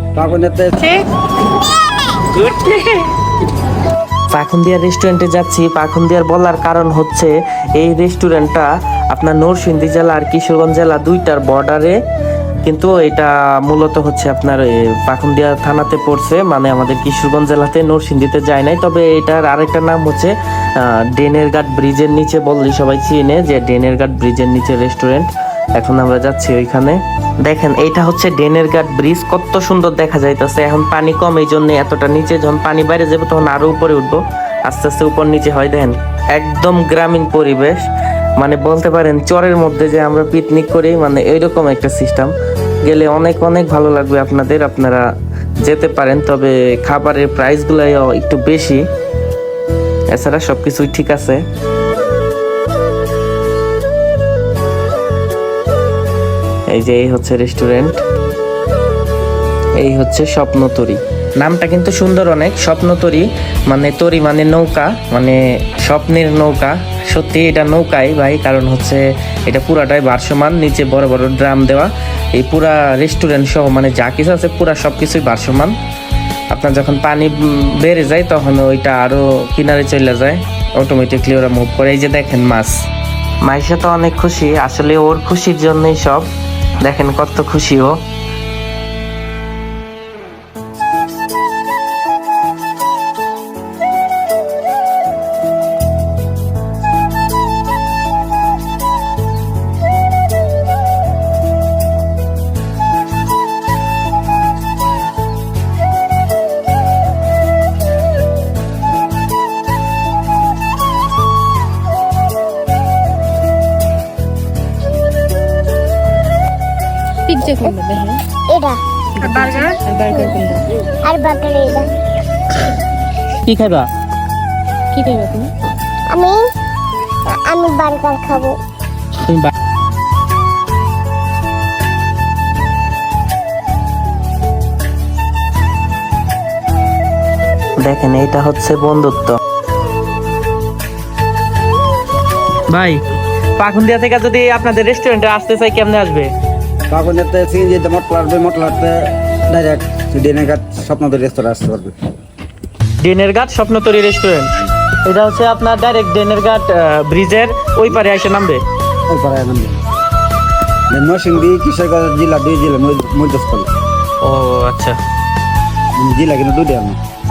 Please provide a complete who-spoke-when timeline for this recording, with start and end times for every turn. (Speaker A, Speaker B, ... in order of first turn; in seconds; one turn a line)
Speaker A: 0.1-0.8
Speaker B: 2.2-3.1
Speaker B: 4.3-12.0
Speaker B: 12.6-37.9
Speaker B: 38.4-45.1
Speaker B: 45.6-48.9
Speaker B: 50.1-51.4
Speaker B: 56.7-58.0
Speaker B: 59.8-75.8
Speaker B: 76.5-82.8
Speaker B: 83.4-86.3
Speaker B: 86.8-88.0
Speaker C: 117.3-118.2
Speaker D: 118.5-121.9
Speaker C: 119.2-120.7
Speaker B: 123.4-123.9
Speaker C: 124.9-125.5
Speaker D: 126.1-126.5
Speaker D: 127.2-128.6
Speaker B: 129.2-129.5
Speaker B: 137.8-139.4
Speaker B: 142.7-143.0
Speaker B: 143.6-146.3
Speaker A: 146.9-151.9
Speaker B: 153.0-158.6
Speaker A: 159.1-159.8
Speaker A: 160.9-163.7
Speaker B: 164.2-165.0
Speaker A: 166.0-167.0